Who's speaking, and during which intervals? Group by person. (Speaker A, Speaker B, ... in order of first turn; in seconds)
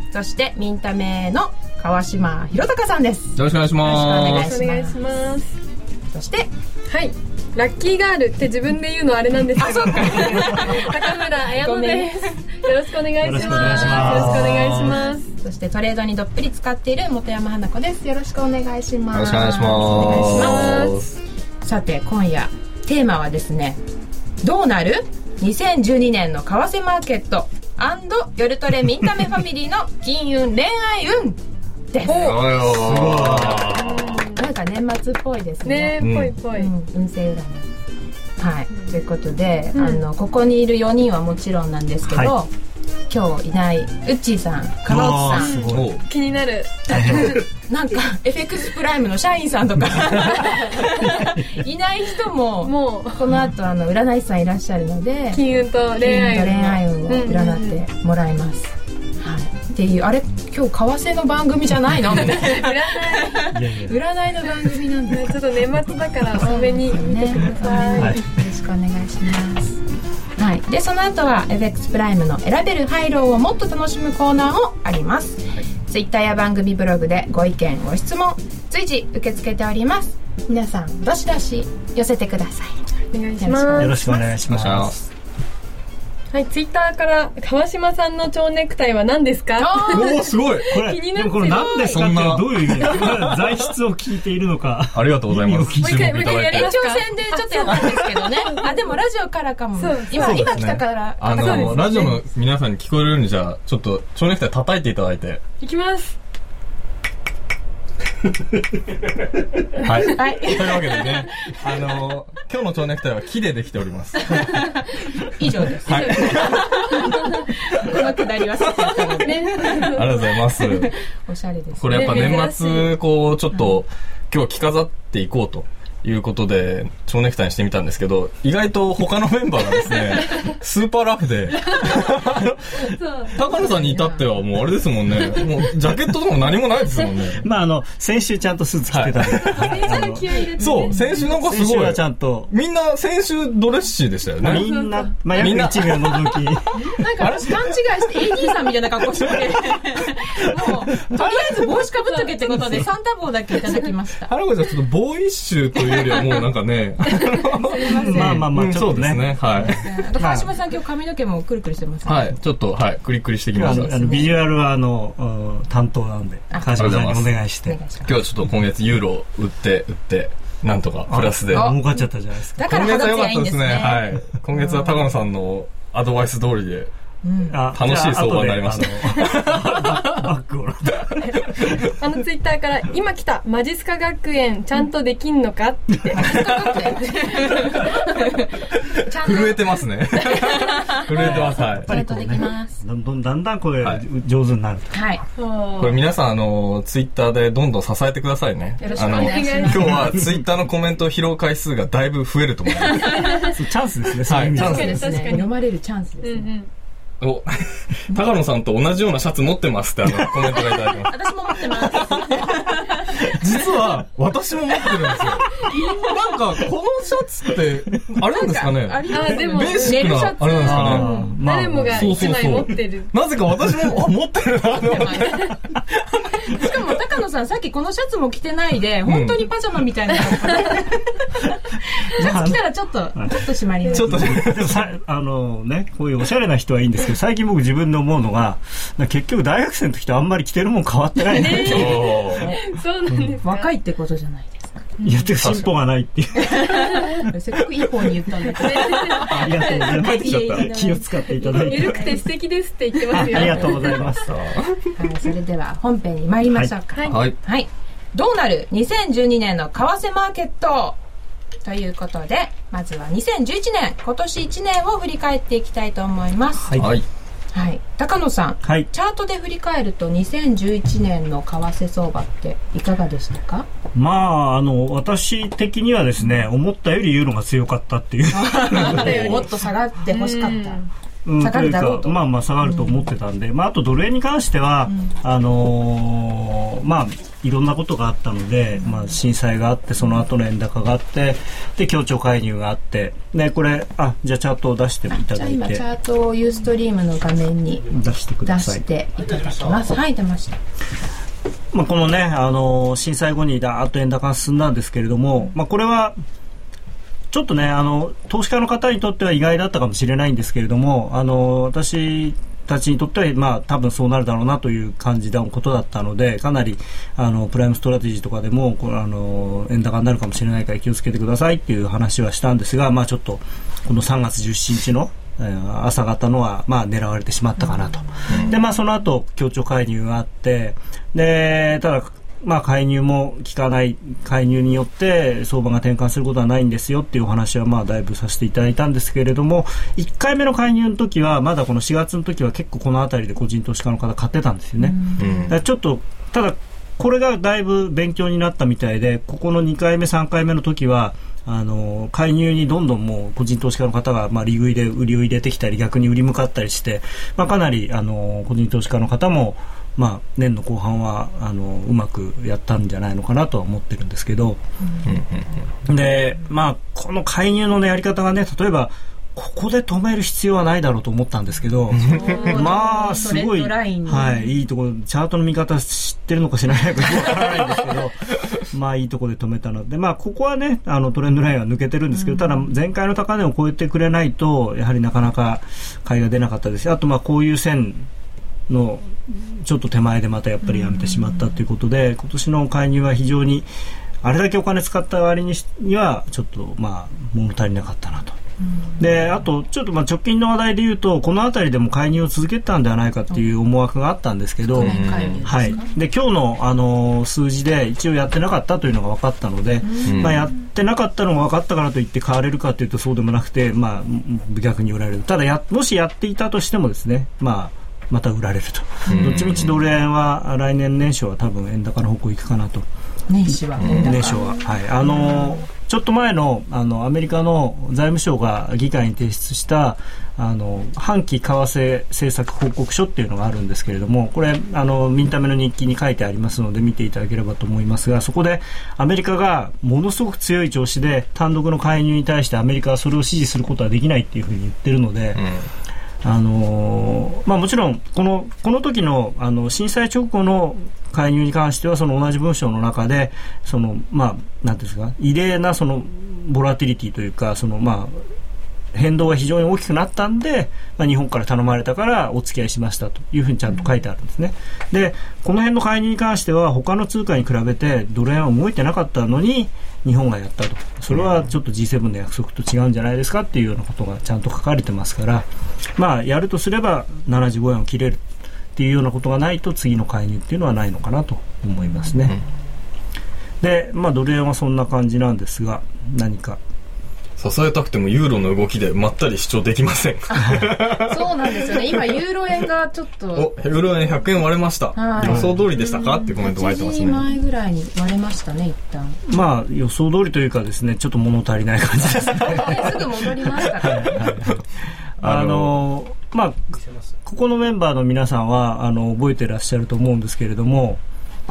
Speaker A: 0.1-5.0, 6.1-6.5, 9.6-12.5, 13.3-14.2, 15.4-20.9, 21.6-23.8, 24.4-31.4, 31.9-32.4, 34.4-37.7, 38.4-42.5, 43.1-45.6, 47.0-55.4, 56.0-65.4, 66.3-69.8, 70.4-82.8, 83.4-84.3, 89.6-90.3, 96.3-102.2, 110.0-111.3, 114.3-114.7, 115.2-122.5, 133.2-134.3, 139.9-140.8, 145.3-145.9, 146.8-154.3, 157.6-158.5, 159.6-162.3, 163.6-164.3, 166.5-166.8, 167.7-168.2, 171.5-172.0, 172.6-174.9, 177.2-177.6, 186.1-188.5, 189.0-189.7, 190.2-192.8, 194.9-195.2, 198.8-200.2, 203.1-203.4, 204.6-206.5, 211.1-213.4, 215.1-216.0, 218.2-221.3, 224.8-225.5, 226.3-234.5, 243.4-244.9, 246.4-252.2, 253.1-253.6, 255.0-261.0, 261.6-266.8, 267.5-273.7, 278.3-280.9, 281.4-283.1, 288.9-289.1, 295.1-297.9, 298.4-300.6, 344.8-345.5, 372.2-374.5, 382.1-382.6, 390.7-391.5, 398.7-399.1, 404.7-405.9, 409.8-410.4, 423.3-425.6, 490.3-493.5, 494.9-499.2, 502.5-504.2
Speaker B: 3.4-4.5, 13.6-14.9, 19.1-21.2, 32.0-34.3, 36.0-36.3, 45.7-46.0, 84.4-85.0, 89.9-90.7, 91.7-93.5, 94.9-96.7, 100.1-105.4, 109.8-115.3, 115.8-116.8, 119.9-120.9, 121.8-137.4, 138.9-139.8, 140.6-144.7, 145.3-146.2, 147.2-147.6, 154.3-159.8, 162.1-164.2, 166.7-167.3, 168.1-171.8, 172.6-176.9, 177.7-180.3, 186.3-186.7, 189.2-191.9, 195.8-203.4, 204.3-205.1, 207.2-212.5, 213.2-221.1, 221.9-226.7, 229.1-229.5, 233.9-234.8, 241.6-242.4, 245.4-245.7, 250.1-250.7, 254.1-254.9, 257.1-257.4, 266.8-267.1, 328.3-328.6, 345.2-345.6, 365.1-365.6, 371.9-372.5, 404.7-405.6, 410.1-410.5, 419.1-419.8, 423.8-424.1, 445.4-445.7, 487.4-492.0, 493.4-497.2, 503.9-504.6, 505.2-505.8
Speaker C: 4.2-5.5, 6.9-15.3, 20.0-21.0, 32.0-32.5, 33.7-34.4, 35.6-36.7, 39.8-40.0, 45.4-47.4, 52.6-53.2, 55.3-57.8, 62.2-63.5, 65.1-68.2, 83.1-84.0, 86.3-92.2, 95.8-98.8, 99.8-100.5, 101.3-102.1, 105.6-106.2, 115.9-116.6, 119.2-120.5, 121.9-123.0, 139.4-141.3, 144.6-145.1, 182.0-186.5, 187.4-187.7, 195.4-196.0, 198.9-200.1, 203.1-203.5, 204.6-205.5, 206.2-206.7, 219.1-223.1, 233.9-234.2, 241.3-243.7, 245.0-245.3, 248.6-249.9, 251.4-254.1, 256.9-257.2, 278.8-279.6, 280.1-280.9
Speaker D: 13.2-14.8, 32.6-33.8, 42.1-42.4, 44.9-46.0, 46.9-47.4, 51.1-51.5, 63.5-64.0, 67.9-68.2, 83.8-85.1, 90.7-96.2, 137.4-140.3, 141.2-142.5, 144.4-146.9, 157.8-160.5, 163.5-167.8, 171.1-172.9, 177.5-181.8, 191.2-195.0, 203.5-205.1, 220.6-222.2, 232.2-232.6, 233.9-242.2, 243.1-243.4, 245.0-246.8, 249.2-252.1, 253.1-254.4, 266.6-267.0, 268.6-268.9, 273.9-279.5, 281.2-295.9, 297.9-298.9, 301.7-306.2, 307.3-364.6, 365.9-388.1, 388.7-393.7, 394.2-398.4, 399.0-422.9, 423.5-445.4, 446.2-458.2, 458.9-478.2, 478.8-482.4, 483.6-486.6, 495.2-495.6, 499.3-504.6, 505.2-511.0